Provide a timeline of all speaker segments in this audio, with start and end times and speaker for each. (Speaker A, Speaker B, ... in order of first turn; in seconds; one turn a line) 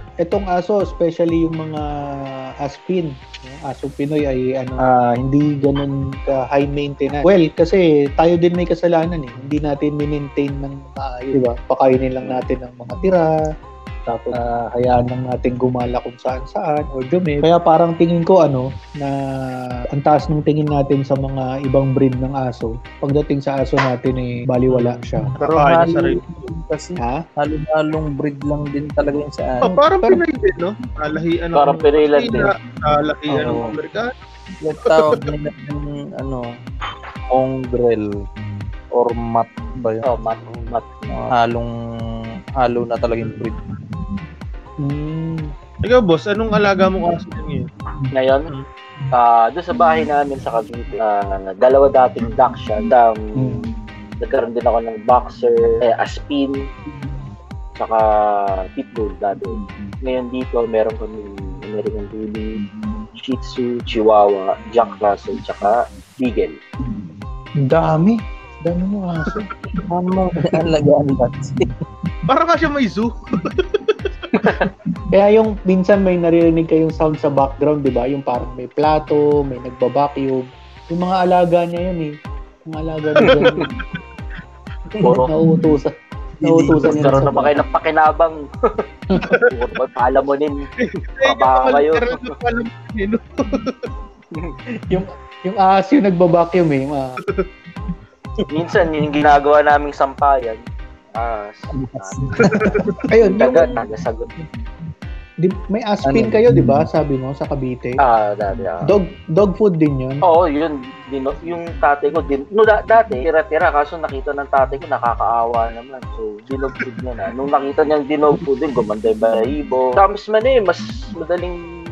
Speaker A: 0.2-13.3
Speaker A: 14.1-25.3
Speaker B: 24.7-26.3
Speaker C: 25.4-29.6
Speaker B: 29.6-34.1
Speaker A: 29.6-30.2
Speaker D: 31.5-32.5
Speaker A: 33.3-33.7
Speaker C: 34.6-36.5
Speaker B: 34.8-35.2
Speaker C: 37.3-38.1
Speaker C: 38.9-40.0
Speaker D: 40.0-41.1
Speaker C: 41.1-41.7
Speaker C: 42.6-43.6
Speaker A: 44.8-45.5
Speaker B: 45.8-47.7
Speaker D: 48.1-48.5
Speaker D: 49.1-53.6
Speaker D: 54.2-56.6
Speaker D: 57.8-62.5
Speaker D: 63.2-66.6
Speaker A: 67.6-69.5
Speaker B: 69.2-69.8
Speaker C: 69.9-71.7
Speaker B: 72.3-74.7
Speaker D: 74.4-74.7
Speaker A: 75.1-82.1
Speaker A: 82.7-83.7
Speaker B: 83.2-84.0
Speaker D: 83.3-83.6
Speaker D: 85.0-85.3
Speaker A: 85.0-85.9
Speaker C: 86.4-87.6
Speaker A: 86.4-87.6
Speaker D: 86.8-88.4
Speaker A: 89.1-89.4
Speaker B: 89.2-89.5
Speaker D: 89.4-90.7
Speaker B: 90.8-93.9
Speaker D: 91.2-92.3
Speaker A: 94.8-97.2
Speaker D: 98.5-100.6
Speaker D: 101.1-104.3
Speaker C: 101.7-102.9
Speaker B: 102.5-103.0
Speaker A: 103.1-103.7
Speaker A: 105.4-108.0
Speaker C: 106.0-106.8
Speaker D: 108.0-109.0
Speaker A: 108.8-110.2
Speaker D: 110.2-121.6